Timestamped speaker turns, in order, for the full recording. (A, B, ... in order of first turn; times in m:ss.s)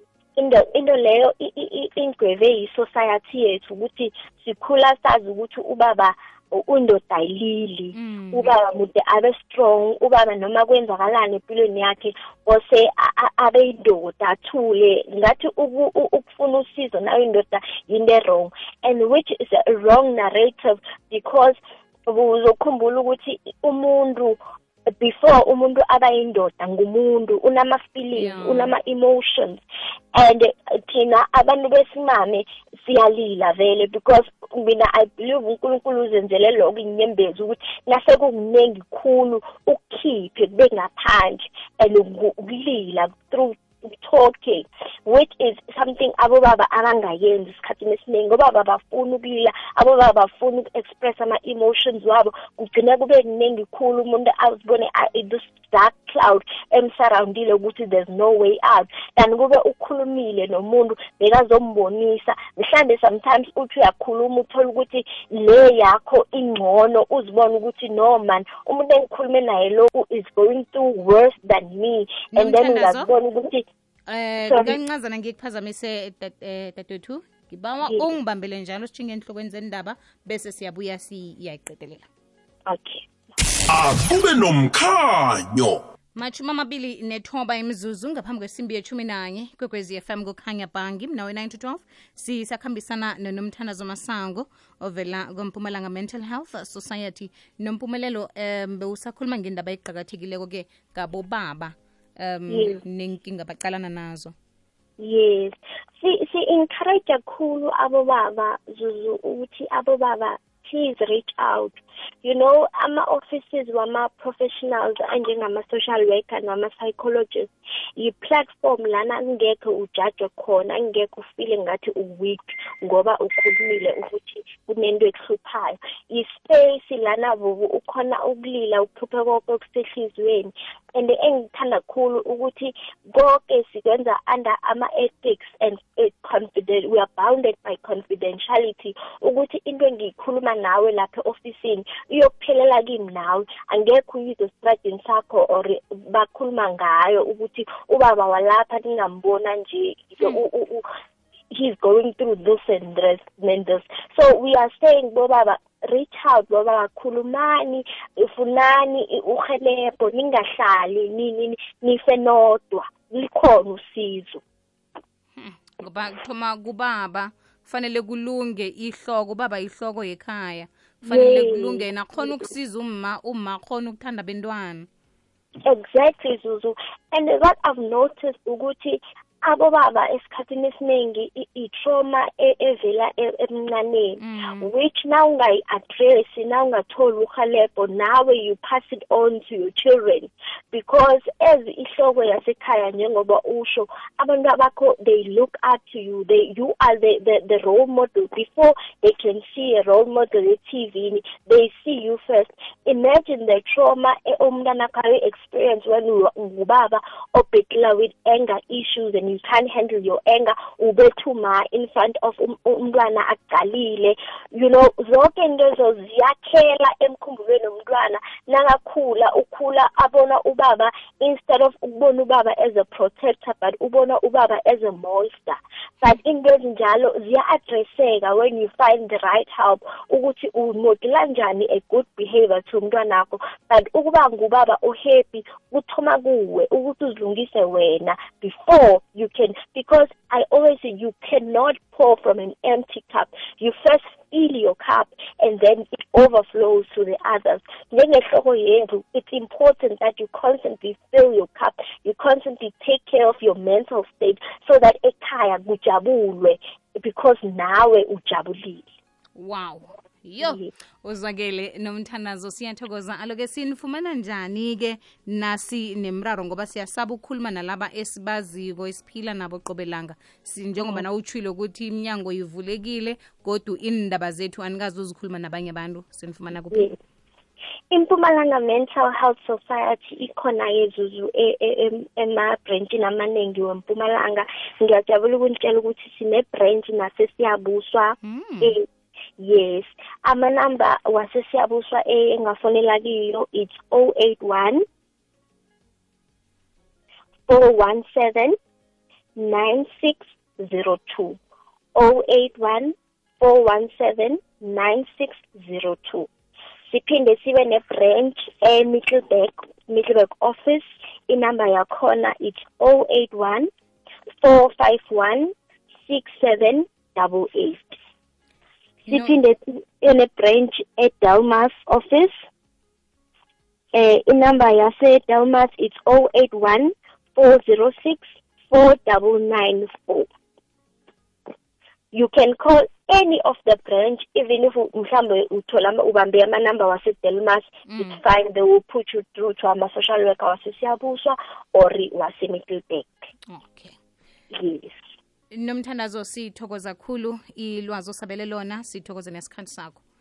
0:00.4-0:21.6 A
0:07.9-0:08.5 B
0:22.1-0:24.4 A
0:25.0-0:29.6 A
0:28.1-0:28.7 B
0:30.1-1:13.6 A
1:12.3-1:13.1 B
1:14.1-1:22.1 B
1:14.5-1:14.8 A
1:17.8-1:18.1 A
1:22.7-1:23.1 A
1:23.7-1:25.8 C
1:26.2-1:44.3 B
1:42.5-1:42.8 A
1:45.0-2:30.8 A
2:31.5-2:44.4 A
2:45.4-2:54.9 B
2:51.0-2:52.4 A
2:55.6-4:18.8 A
3:04.2-3:04.7 B
4:19.4-4:36.9 B
4:20.4-4:20.7 A
4:37.9-4:48.8 A
4:48.2-4:48.8 B
4:49.4-4:54.8 A
4:57.5-4:58.5 A
4:59.4-5:01.4 A
5:02.0-5:06.3 A
5:06.9-5:13.7 A
5:14.4-5:15.5 A
5:16.0-5:18.0 A
5:19.0-5:19.4 B
5:19.1-5:22.3 A
5:23.9-5:30.3 A
5:32.1-5:43.2 A
5:37.9-5:38.2 B
5:43.5-5:44.0 B
5:44.5-5:44.9 A
5:45.5-5:50.0 B